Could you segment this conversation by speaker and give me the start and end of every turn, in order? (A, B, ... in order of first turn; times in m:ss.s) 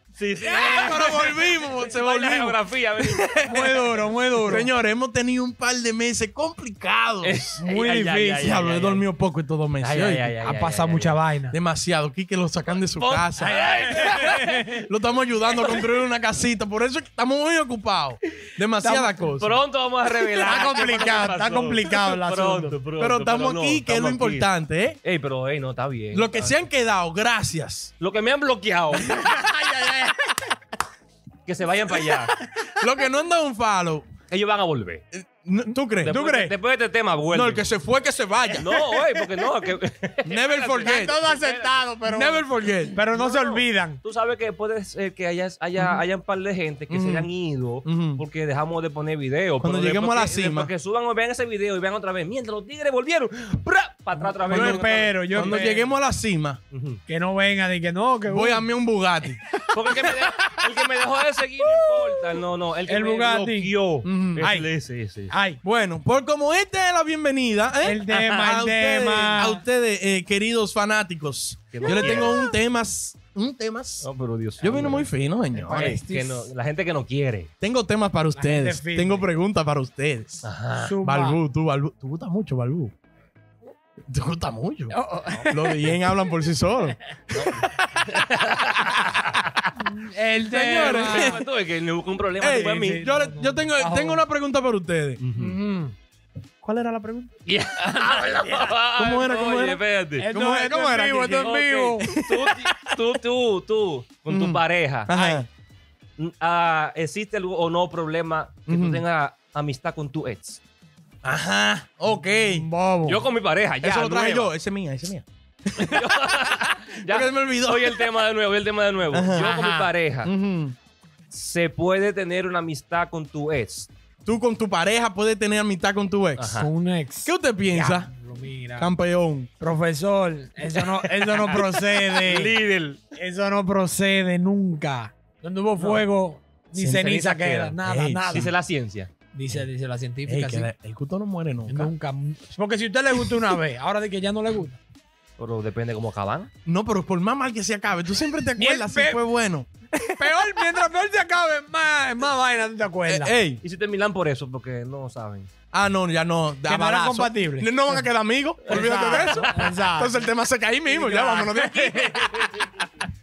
0:00.2-0:03.5 A
0:00.4-0:07.6 B
0:00.4-0:01.1 C
0:03.4-0:04.7 C
0:07.2-0:09.0 A
0:07.6-0:08.6 C
0:08.4-0:10.3 B
0:09.8-0:11.2 A
0:10.4-0:11.6 C
0:11.5-0:19.6 B
0:12.7-0:14.6 A
0:13.4-0:14.6 C
0:15.5-0:15.9 A
0:18.8-0:19.2 C
0:19.4-0:24.5 A
0:20.4-0:22.8 C
0:20.5-0:20.9 B
0:23.0-0:25.0 B
0:25.0-0:26.6 A
0:26.1-0:27.9 B
0:28.0-0:29.4 A
0:29.0-0:30.5 C
0:31.4-0:32.3 A
0:32.0-0:32.8 C
0:32.7-0:34.1 B
0:34.3-0:35.0 A
0:35.1-0:36.1 B
0:36.0-0:37.7 A
0:36.1-0:36.5 C
0:37.3-0:38.8 B
0:38.6-0:41.9 A
0:40.2-0:41.2 B
0:40.8-0:44.0 C
0:42.0-0:43.0 B
0:43.1-0:55.7 A
0:46.9-0:47.3 B
0:47.8-0:48.2 B
0:49.6-0:50.7 B
0:54.2-0:55.9 C
0:54.5-0:56.6 B
0:56.7-0:57.0 A
0:57.1-0:58.7 C
0:58.3-0:59.4 B
0:59.4-1:00.1 C
0:59.7-1:05.3 A
1:00.2-1:00.6 B
1:01.6-1:02.2 C
1:02.8-1:03.7 C
1:04.0-1:04.5 B
1:04.4-1:04.7 C
1:05.3-1:05.6 C
1:05.6-1:14.1 B
1:07.8-1:09.6 C
1:08.1-1:08.4 A
1:11.7-1:12.4 A
1:14.0-1:15.1 A
1:14.6-1:16.0 B
1:15.5-1:16.5 C
1:15.7-1:17.5 A
1:17.6-1:22.9 B
1:18.3-1:19.3 C
1:20.4-1:21.0 A
1:20.8-1:21.4 C
1:24.1-1:27.7 B
1:24.9-1:26.0 C
1:27.3-1:29.7 A
1:29.8-1:31.4 C
1:30.5-1:33.0 A
1:30.7-1:31.4 B
1:32.4-1:35.3 B
1:32.4-1:34.2 C
1:35.2-1:35.6 A
1:35.4-1:35.9 C
1:36.6-1:37.3 B
1:37.4-1:40.3 A
1:38.0-1:38.6 C
1:38.9-1:43.0 B
1:40.2-1:42.1 C
1:41.4-1:45.1 A
1:44.3-1:45.5 B
1:45.1-1:45.4 C
1:46.2-1:50.6 A
1:48.7-1:49.0 B
1:51.2-1:52.7 B
1:52.5-1:53.3 C
1:53.0-1:54.5 A
1:53.8-1:55.2 B
1:55.8-2:00.3 A
1:55.8-1:58.0 B
1:59.1-1:59.5 B
1:59.3-1:59.9 C
2:00.2-2:00.8 B
2:01.3-2:03.9 A
2:04.2-2:06.6 B
2:06.4-2:06.7 A
2:06.5-2:08.9 C
2:07.2-2:08.1 B
2:08.8-2:09.5 B
2:09.6-2:12.6 C
2:10.7-2:13.0 A
2:13.1-2:18.5 C
2:15.8-2:16.0 A
2:16.8-2:17.0 B
2:16.8-2:17.8 A
2:17.8-2:18.5 B
2:18.3-2:19.1 A
2:19.3-2:20.7 C
2:20.3-2:21.9 B
2:21.7-2:24.8 C
2:25.4-2:26.5 A
2:26.6-2:30.7 B
2:28.6-2:29.2 C
2:30.2-2:33.3 C
2:33.1-2:33.6 B
2:33.6-2:35.5 A
2:35.7-2:42.7 B
2:36.7-2:38.0 C
2:38.7-2:39.7 A
2:38.7-2:40.2 C
2:40.8-2:42.2 C
2:42.2-2:43.0 A